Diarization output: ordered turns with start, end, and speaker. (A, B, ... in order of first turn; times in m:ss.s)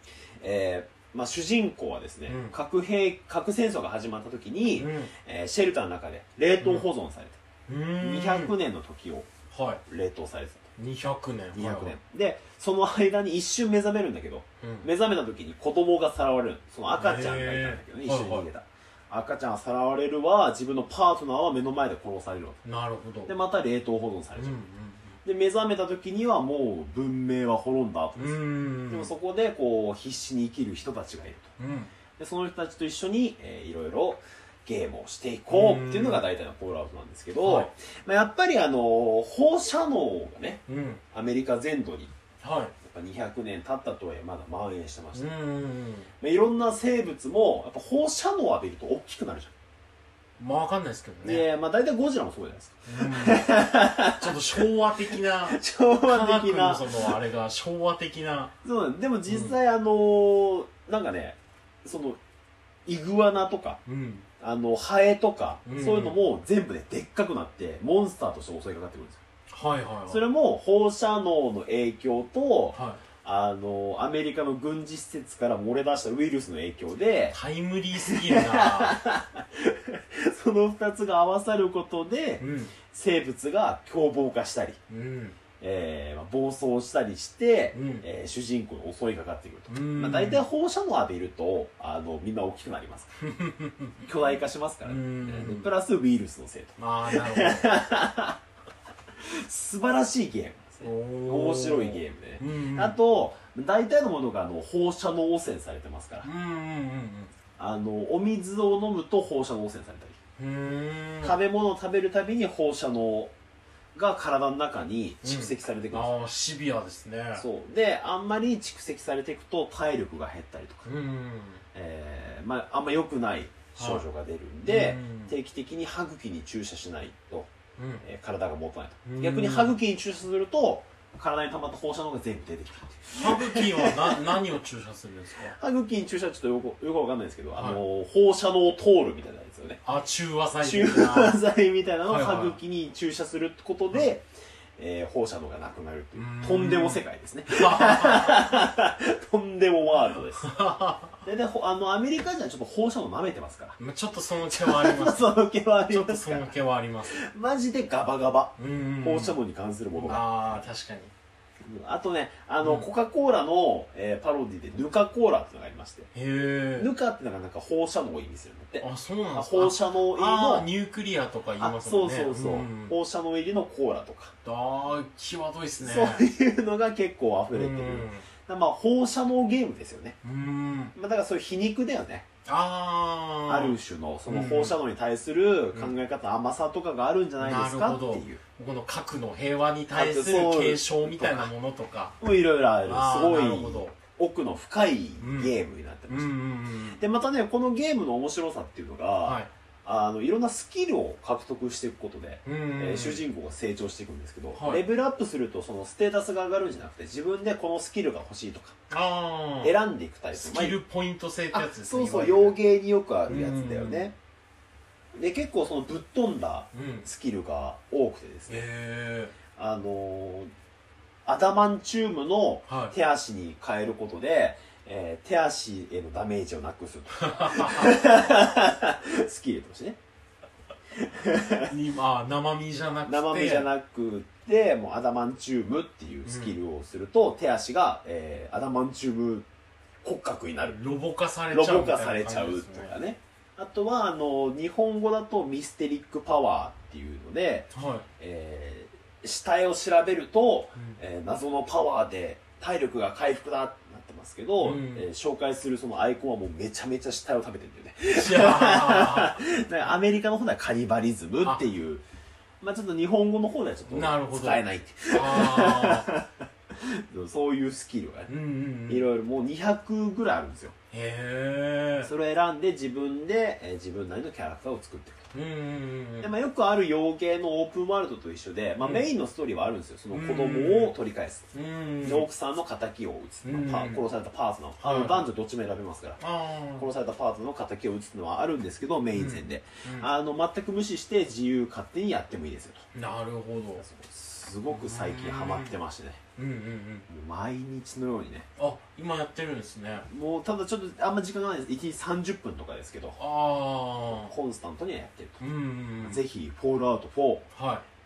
0:00.4-0:07.4 A
0:02.3-0:02.5 B
0:04.7-0:05.1 B
0:06.6-0:06.9 B
0:07.7-0:08.5 B
0:08.0-0:09.3 A
0:09.5-0:09.8 B
0:09.8-0:10.7 A
0:10.8-0:12.0 B
0:11.5-0:22.6 A
0:14.6-0:14.9 B
0:17.0-0:18.5 B
0:22.6-0:23.3 B
0:23.2-0:24.6 A
0:24.4-0:25.2 B
0:25.2-0:31.5 A
0:28.2-0:29.1 B
0:31.6-0:31.9 B
0:32.2-0:42.1 A
0:35.5-0:36.2 B
0:37.4-0:37.7 B
0:40.7-0:41.0 B
0:42.4-0:42.7 B
0:42.8-0:45.3 A
0:45.1-0:46.1 B
0:46.2-0:49.5 A
0:50.4-0:51.4 B
0:51.2-0:54.7 A
0:52.8-0:58.5 B
0:55.3-0:57.2 A
0:58.6-1:02.2 A
0:59.3-0:59.6 B
1:02.8-1:03.8 A
1:03.8-1:04.2 B
1:04.4-1:09.2 A
1:05.6-1:06.2 B
1:09.5-1:10.2 B
1:10.1-1:17.4 A
1:12.7-1:13.0 B
1:17.3-1:19.0 B
1:18.0-1:24.8 A
1:22.4-1:22.7 B
1:24.9-1:25.4 B
1:25.6-1:33.2 A
1:27.7-1:28.0 B
1:29.7-1:30.4 B
1:33.2-1:33.9 B
1:34.0-1:38.4 A
1:34.8-1:35.7 B
1:36.8-1:37.6 B
1:39.2-1:46.3 A
1:40.8-1:43.0 B
1:46.2-1:47.3 B
1:47.6-1:50.2 A
1:50.4-1:51.4 B
1:51.2-1:53.3 A
1:53.9-1:56.2 A
1:55.2-1:57.4 B
1:57.4-2:00.9 A
2:00.8-2:01.6 B
2:01.7-2:07.5 A
2:03.8-2:04.0 B
2:04.6-2:05.3 B
2:07.8-2:08.0 B
2:08.0-2:14.4 A
2:09.0-2:09.8 B
2:13.2-2:15.5 B
2:15.4-2:19.8 A
2:17.6-2:17.8 B
2:19.8-2:21.4 B
2:20.6-2:24.3 A
2:22.0-2:22.6 B
2:24.8-2:30.6 A
2:26.1-2:28.4 B
2:30.4-2:31.1 B
2:31.2-2:33.8 A
2:33.8-2:35.3 B
2:34.5-2:36.5 A
2:35.9-2:37.2 B
2:37.1-2:40.6 A
2:38.6-2:39.4 B
2:39.9-2:41.1 B
2:41.6-2:46.1 A
2:42.6-2:42.9 B
2:46.1-2:46.9 B
2:46.8-2:50.7 A
2:48.8-2:52.9 B
2:51.6-2:54.3 A
2:54.4-2:56.2 B
2:55.8-3:00.2 A
2:57.5-2:58.3 B
3:00.2-3:00.9 B
3:00.9-3:02.3 A
3:02.4-3:04.8 B
3:03.5-3:08.4 A
3:07.4-3:12.2 B
3:09.9-3:11.5 A
3:12.2-3:16.4 A
3:12.8-3:14.0 B
3:15.2-3:15.5 B
3:16.1-3:17.0 B
3:16.9-3:28.8 A
3:22.4-3:23.2 B
3:24.5-3:24.8 B
3:28.9-3:29.8 B
3:29.6-3:30.8 A
3:30.3-3:32.6 B
3:31.5-3:34.1 A
3:33.3-3:34.1 B
3:35.1-3:38.6 A
3:36.7-3:37.1 B
3:38.5-3:39.3 B
3:39.5-3:40.5 A
3:41.2-3:50.0 A
3:42.7-3:42.9 B
3:47.2-3:48.0 B
3:51.0-3:51.7 A
3:51.7-3:53.7 B
3:53.0-3:59.5 A
3:56.2-3:56.6 B
4:00.0-4:00.8 A
4:00.6-4:02.9 B
4:01.5-4:22.0 A
4:07.7-4:08.1 B
4:14.6-4:15.1 B
4:18.1-4:19.4 B
4:22.6-4:28.3 A
4:23.9-4:26.1 B
4:28.3-4:29.0 B
4:28.9-4:30.7 A
4:30.9-4:32.1 B
4:32.0-4:35.3 A
4:35.3-4:36.3 B
4:36.2-4:41.5 A
4:38.8-4:39.1 B
4:40.1-4:40.9 B
4:41.5-4:42.3 B
4:42.0-4:46.2 A
4:43.4-4:44.1 B
4:44.8-4:45.3 B
4:46.2-4:46.9 B
4:46.8-4:52.8 A
4:49.1-4:50.1 B
4:52.9-4:53.8 B
4:53.8-4:56.2 A
4:54.7-4:55.7 B
4:56.4-4:57.1 B
4:57.1-4:58.5 A
4:58.6-5:00.1 B
5:00.1-5:03.2 A
5:03.2-5:04.3 B
5:04.1-5:05.4 A
5:05.4-5:06.2 B
5:06.0-5:07.5 A
5:07.5-5:07.8 B